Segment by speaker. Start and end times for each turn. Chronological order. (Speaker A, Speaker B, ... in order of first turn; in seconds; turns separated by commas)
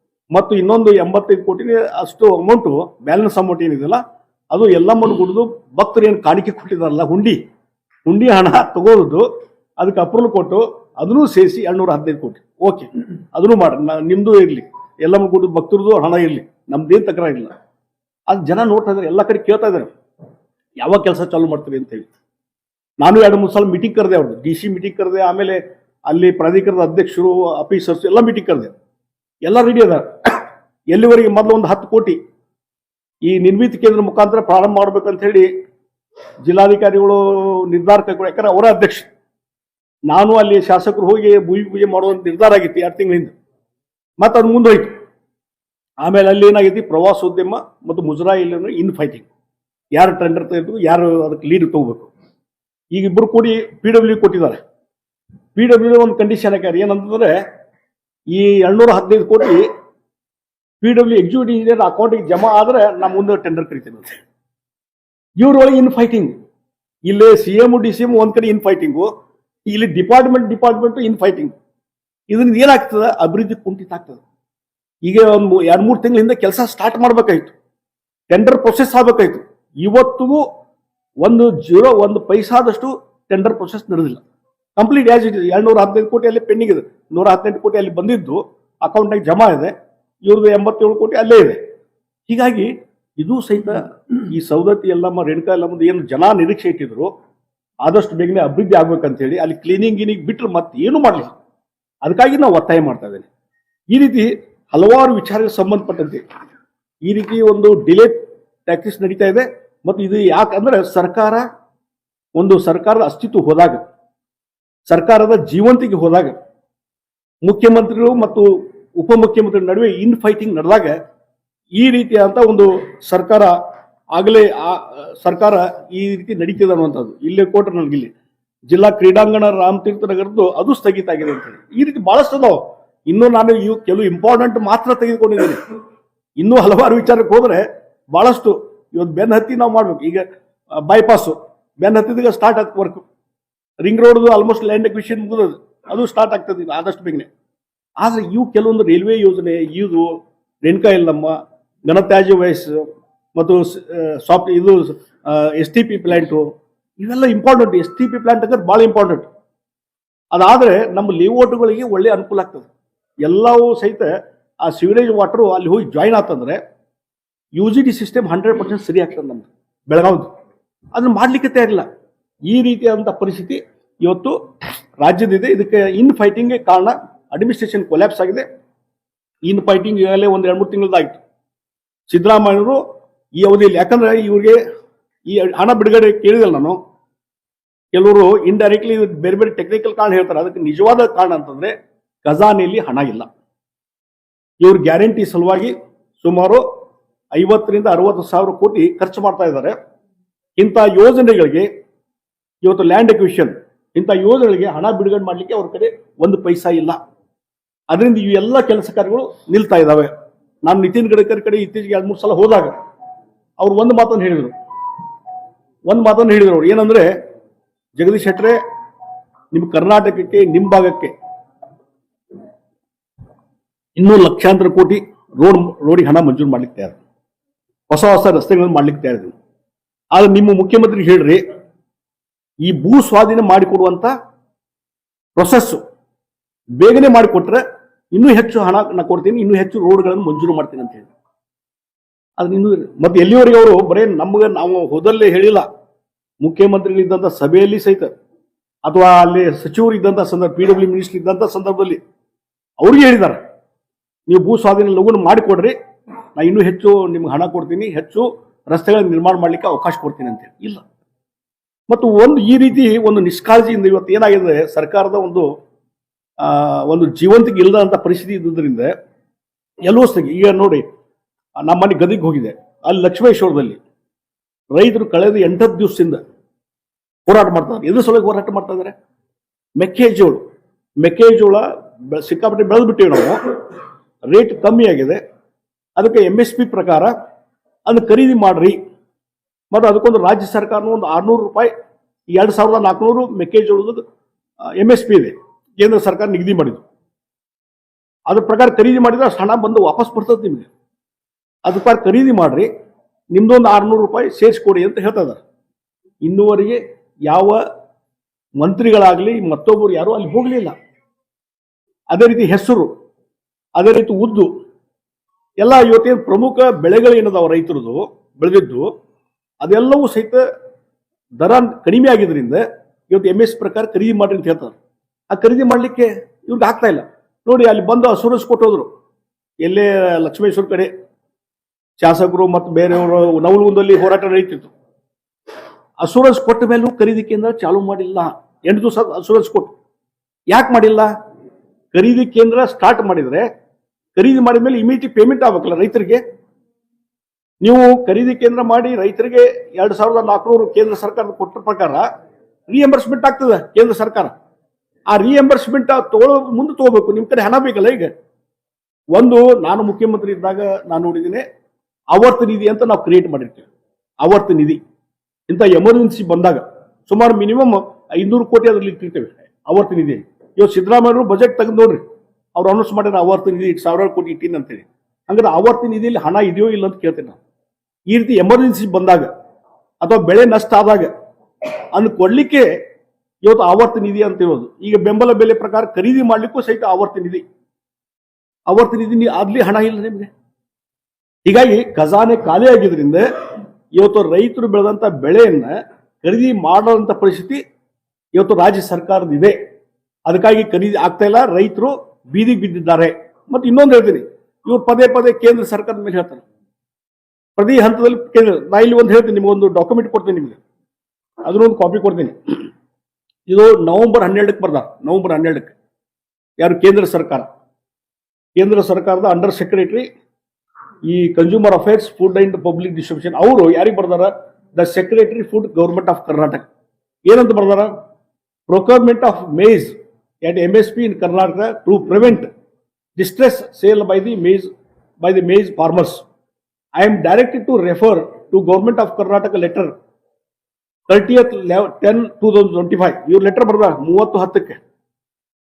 Speaker A: 0.3-7.4, Speaker A: 8.1-9.3, Speaker A: 9.8-17.5, Speaker A: 18.3-19.9, Speaker A: 20.8-22.1, Speaker A: 23.0-28.7, Speaker A: 29.4-30.4, Speaker A: 30.9-32.2, Speaker A: 33.2-35.5, Speaker A: 36.4-39.1, Speaker A: 40.1-43.3, Speaker A: 44.2-44.9, Speaker A: 46.0-49.3, Speaker A: 49.9-52.1, Speaker A: 52.9-54.6, Speaker A: 55.5-57.4, Speaker A: 58.3-59.7, Speaker A: 60.8-64.2, Speaker A: 65.4-66.3, Speaker A: 67.1-69.1, Speaker A: 69.7-71.5, Speaker A: 72.3-74.2, Speaker A: 75.0-77.5, Speaker A: 78.3-80.4, Speaker A: 81.2-84.2, Speaker A: 84.8-91.6, Speaker A: 92.3-97.1, Speaker A: 97.8-101.4, Speaker A: 102.0-103.3, Speaker A: 103.9-106.2, Speaker A: 107.0-111.5, Speaker A: 112.4-113.8, Speaker A: 114.9-116.4, Speaker A: 117.4-121.0, Speaker A: 121.8-123.5, Speaker A: 124.1-128.1, Speaker A: 128.7-135.6, Speaker A: 136.4-140.2, Speaker A: 140.8-143.0, Speaker A: 143.8-147.3, Speaker A: 148.0-159.3, Speaker A: 160.3-162.7, Speaker A: 163.2-164.1, Speaker A: 164.6-166.6, Speaker A: 167.6-170.3, Speaker A: 170.9-171.9, Speaker A: 172.5-174.4, Speaker A: 175.0-178.4, Speaker A: 179.5-181.2, Speaker A: 182.1-182.8, Speaker A: 183.4-184.6, Speaker A: 185.3-186.8, Speaker A: 187.9-191.7, Speaker A: 192.2-193.3, Speaker A: 194.6-196.7, Speaker A: 197.3-199.8, Speaker A: 200.6-201.7, Speaker A: 202.6-207.0, Speaker A: 207.9-210.1, Speaker A: 210.6-212.7, Speaker A: 213.6-214.6, Speaker A: 215.9-217.1, Speaker A: 218.0-218.6, Speaker A: 219.5-221.1, Speaker A: 224.0-227.0, Speaker A: 227.9-229.3, Speaker A: 230.1-231.4, Speaker A: 232.6-234.1, Speaker A: 235.4-235.8, Speaker A: 236.8-241.1, Speaker A: 242.4-245.7, Speaker A: 246.4-248.1, Speaker A: 248.8-252.0, Speaker A: 252.8-253.4, Speaker A: 254.3-255.8, Speaker A: 256.4-260.8, Speaker A: 261.9-265.5, Speaker A: 266.4-268.9, Speaker A: 269.9-270.8, Speaker A: 271.6-273.8, Speaker A: 274.7-276.2, Speaker A: 277.3-278.9, Speaker A: 279.8-280.4, Speaker A: 281.0-283.4, Speaker A: 284.3-285.2, Speaker A: 286.0-287.1, Speaker A: 287.9-288.8, Speaker A: 289.7-291.7, Speaker A: 292.3-294.0, Speaker A: 294.8-296.8, Speaker A: 298.3-300.7, Speaker A: 301.7-302.7, Speaker A: 303.3-305.4, Speaker A: 306.2-307.6, Speaker A: 308.6-310.8, Speaker A: 312.1-312.9, Speaker A: 313.8-314.5, Speaker A: 315.6-318.9, Speaker A: 319.6-320.4, Speaker A: 321.4-324.8, Speaker A: 325.3-328.9, Speaker A: 329.6-330.9, Speaker A: 332.0-334.7, Speaker A: 336.0-339.7, Speaker A: 340.5-341.1, Speaker A: 341.9-343.5, Speaker A: 344.1-346.2, Speaker A: 347.6-352.1, Speaker A: 352.7-354.3, Speaker A: 355.1-358.1, Speaker A: 359.1-361.4, Speaker A: 362.1-363.7, Speaker A: 364.2-364.8, Speaker A: 365.5-372.0, Speaker A: 372.6-377.4, Speaker A: 378.1-379.3, Speaker A: 380.0-381.1, Speaker A: 381.9-382.7, Speaker A: 383.4-387.4, Speaker A: 388.7-390.3, Speaker A: 391.4-393.2, Speaker A: 393.9-397.6, Speaker A: 398.4-399.6, Speaker A: 400.3-406.4, Speaker A: 407.6-410.6, Speaker A: 411.4-412.4, Speaker A: 413.5-415.7, Speaker A: 416.6-417.5, Speaker A: 418.6-420.1, Speaker A: 421.1-426.7, Speaker A: 427.3-427.9, Speaker A: 428.7-432.5, Speaker A: 433.2-434.7, Speaker A: 435.2-436.2, Speaker A: 437.0-439.9, Speaker A: 441.1-444.8